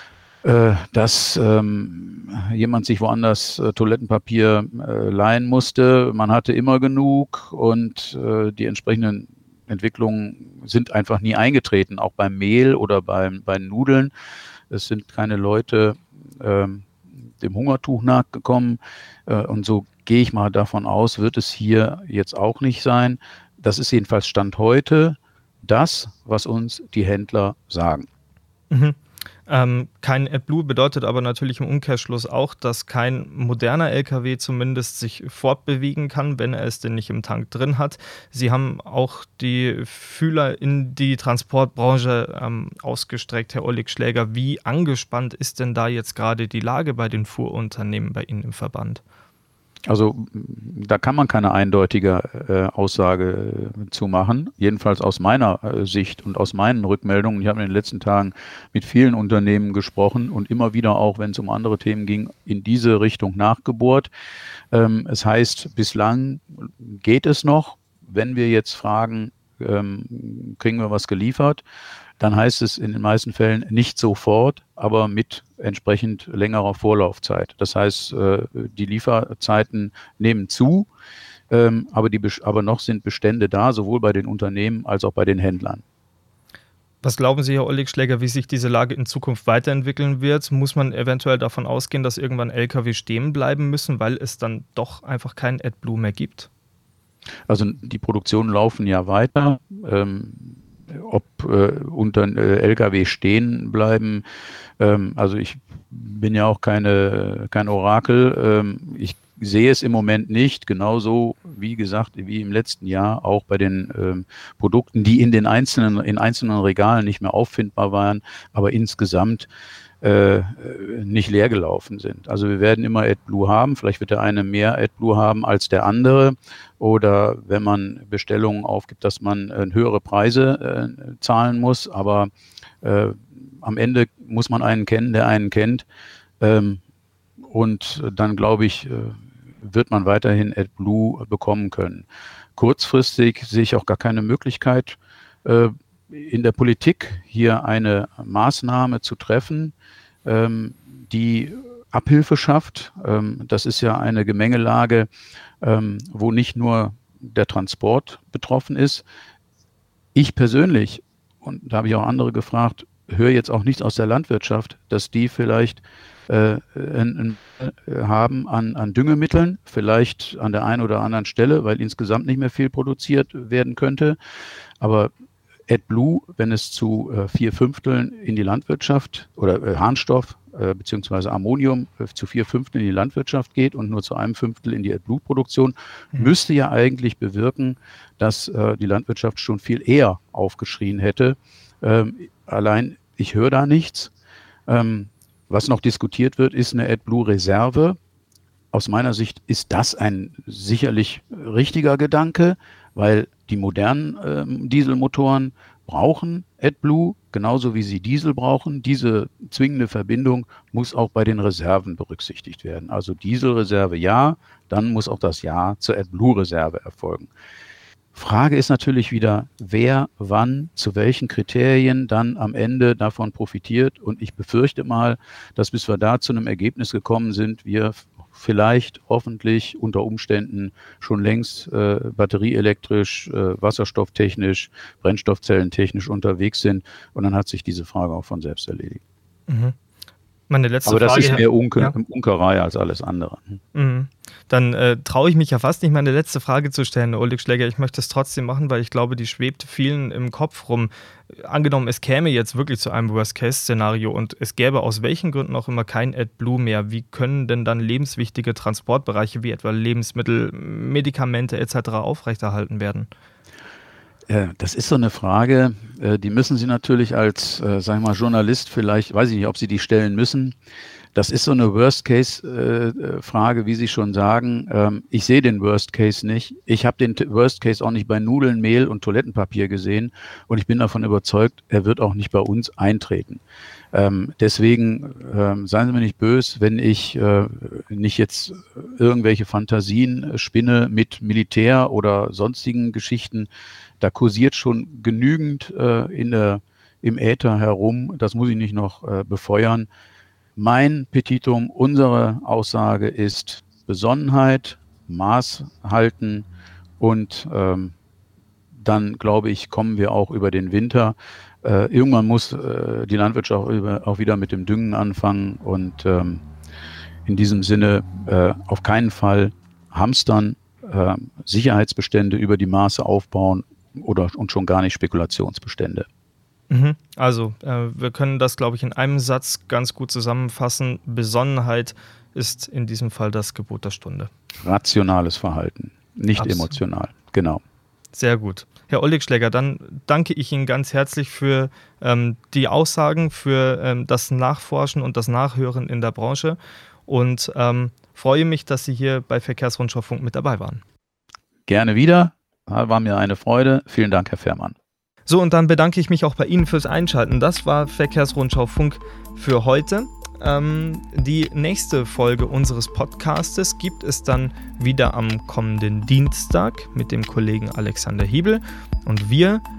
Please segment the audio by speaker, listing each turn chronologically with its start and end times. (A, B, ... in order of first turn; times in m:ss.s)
0:00.4-0:14.1 A
0:14.7-0:16.9 A
0:17.4-0:28.1 A
0:28.7-0:49.0 B
0:49.8-1:04.1 A
1:04.7-1:11.6 A
1:12.2-1:20.9 A
1:21.5-1:25.8 A
1:27.0-1:36.5 B
1:37.5-1:44.2 A
1:44.8-1:59.5 A
2:00.0-2:12.3 A
2:12.8-2:15.8 A
2:16.4-2:16.8 A
2:17.4-2:29.7 A
2:30.2-2:35.1 A
2:35.6-2:39.0 A
2:40.1-2:54.2 A
2:54.8-2:55.1 A
2:55.7-3:14.1 A
3:14.7-3:18.0 A
3:18.7-3:37.3 A
3:38.1-3:59.0 A
3:59.5-3:59.7 B
4:00.5-4:01.9 B
4:00.8-4:03.6 A
4:03.7-4:23.1 B
4:24.3-4:30.5 A
4:31.1-4:43.4 A
4:43.9-4:53.5 A
4:54.0-4:59.9 A
5:00.6-5:06.5 A
5:07.0-5:07.9 A
5:08.7-5:16.4 A
5:17.2-5:26.1 A
5:26.7-5:34.3 B
5:34.6-5:37.6 A
5:36.4-5:36.8 B
5:38.1-5:50.8 B
5:51.7-5:54.7 A
5:55.3-6:09.6 B